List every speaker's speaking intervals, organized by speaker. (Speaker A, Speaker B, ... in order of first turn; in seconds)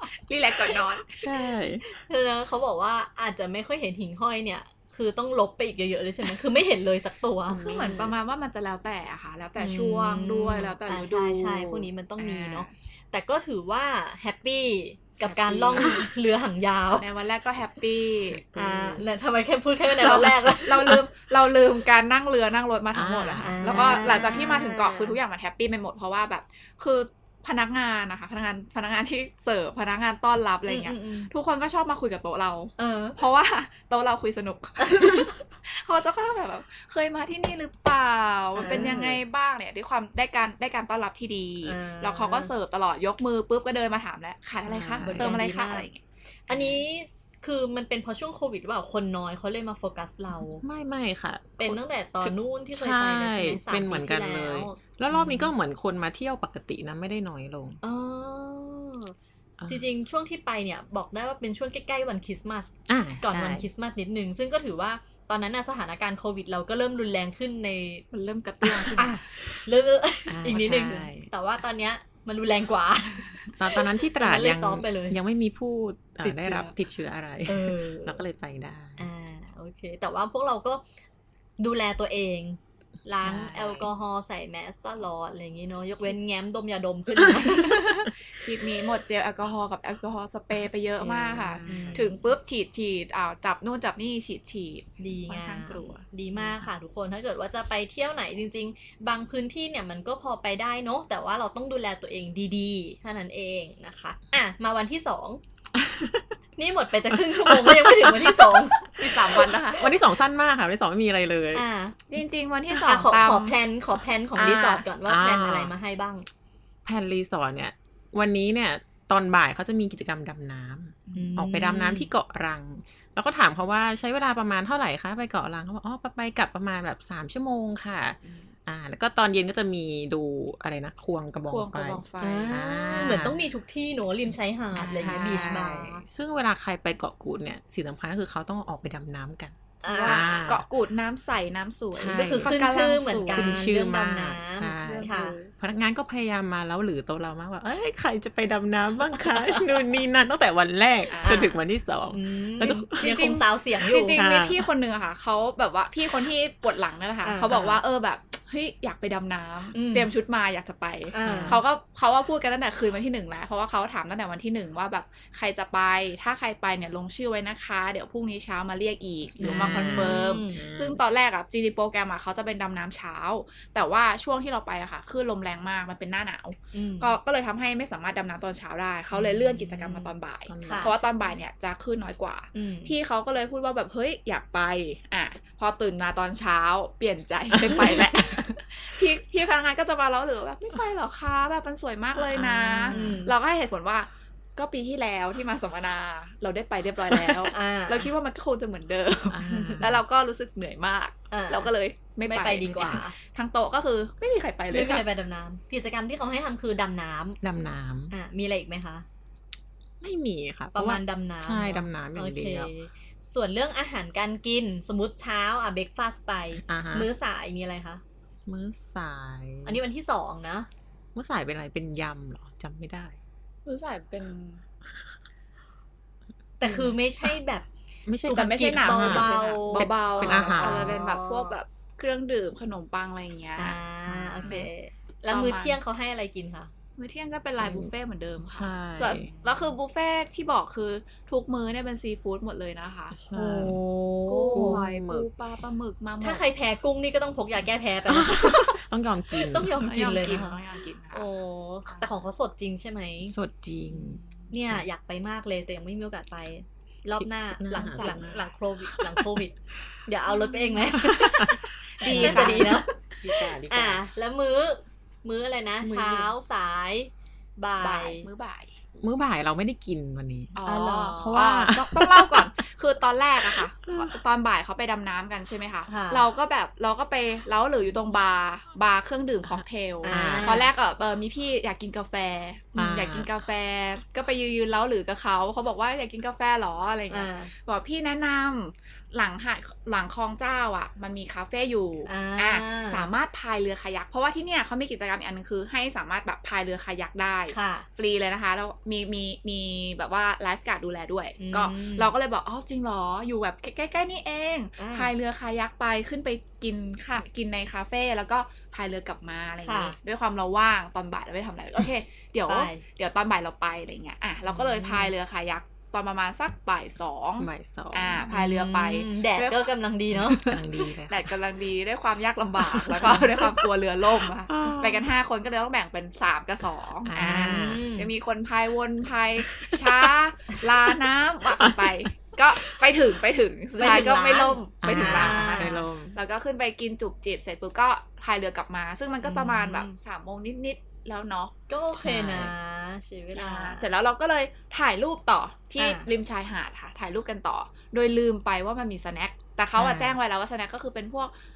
Speaker A: 0.3-1.2, 7.5-12.7, 15.2-16.1, 16.9-18.4, 20.0-46.0, 68.1-69.2, 76.2-76.7, 88.3-96.0, 109.0-109.9, 112.1-113.6, 114.3-114.8, 121.1-121.3, 131.4-132.6, 134.7-135.6, 139.9-143.6, 144.8-145.5, 151.1-151.4, 152.9-205.1, 223.7-224.6, 228.3-233.8, 235.3-235.8, 237.0-243.2, 244.3-246.4, 249.7-251.2, 253.9-254.5, 257.7-258.5, 260.4-262.8, 267.8-268.7, 270.5-319.7, 320.3-341.5, 343.3-351.3
Speaker B: 1.1-1.8, 7.5-8.1, 18.3-19.0, 22.9-24.5, 38.6-39.2, 44.6-45.4, 46.5-46.8, 50.6-57.8, 59.6-59.8, 62.9-63.6, 70.3-71.3, 73.6-79.0, 83.2-83.9, 87.2-87.5, 91.0-92.1, 96.4-96.6, 105.8-106.2, 107.1-111.6, 115.0-115.7, 116.8-133.4, 134.8-140.6, 141.9-142.6, 143.3-153.2, 154.1-154.7, 161.2-161.6, 169.4-171.0, 180.5-181.0, 192.3-193.2, 199.3-200.0, 202.7-203.0, 207.4-208.1, 210.0-212.7, 216.6-217.1, 218.5-219.8, 221.1-223.2, 226.6-226.9, 228.1-231.0, 234.1-234.7, 237.6-237.9, 238.5-239.3, 243.1-243.8, 244.5-245.3, 248.1-249.7, 253.3-254.8, 257.1-258.3, 258.9-259.4, 260.9-264.0, 265.8-266.3, 269.0-270.6, 271.1-272.5, 273.5-274.1, 280.1-280.6, 282.7-283.3, 317.4-318.3, 320.1-321.3, 322.8-323.4, 324.5-325.1, 327.0-327.9, 329.5-330.1, 331.6-332.0, 334.8-336.1, 341.9-342.5, 349.8-350.2
Speaker C: 1.8-7.7, 9.6-17.1, 18.5-21.0, 23.4-25.2, 30.7-31.3, 32.8-33.2, 34.8-35.3, 38.5-39.0, 41.6-42.5, 45.0-45.9, 46.5-50.6, 51.6-55.5, 57.8-59.1, 59.7-68.0, 68.9-75.2, 77.5-78.2, 79.0-80.8, 81.6-88.1, 91.6-92.2, 95.0-105.4, 106.6-108.9, 111.5-112.0, 112.7-116.2, 121.1-122.1, 132.2-136.0, 139.8-140.3, 142.1-145.4, 149.2-149.7, 151.2-151.6, 152.1-154.2, 157.2-157.8, 159.7-160.1, 161.1-161.6, 169.4-170.6, 176.7-177.1, 179.1-180.1, 180.6-180.9, 182.5-182.9, 192.9-193.3, 197.5-198.1, 199.5-199.8, 201.3-201.7, 202.2-203.1, 204.7-207.4, 208.1-209.0, 210.7-218.0, 219.7-220.7, 226.6-227.7, 228.3-231.5, 233.6-236.7, 239.2-239.5, 243.3-244.8, 246.2-248.8, 249.3-250.6, 251.1-253.3, 254.5-259.5, 260.1-261.6, 262.1-262.9, 263.6-268.2, 270.6-271.2, 275.9-276.2, 280.0-280.7, 287.1-287.5, 292.1-293.1, 297.5-297.9, 301.4-302.1, 304.8-305.1, 309.6-309.9, 312.5-312.8, 314.8-315.1, 318.3-320.6, 322.9-323.3, 327.1-328.1, 333.8-335.9, 339.2-339.9, 341.7-343.9, 345.8-346.1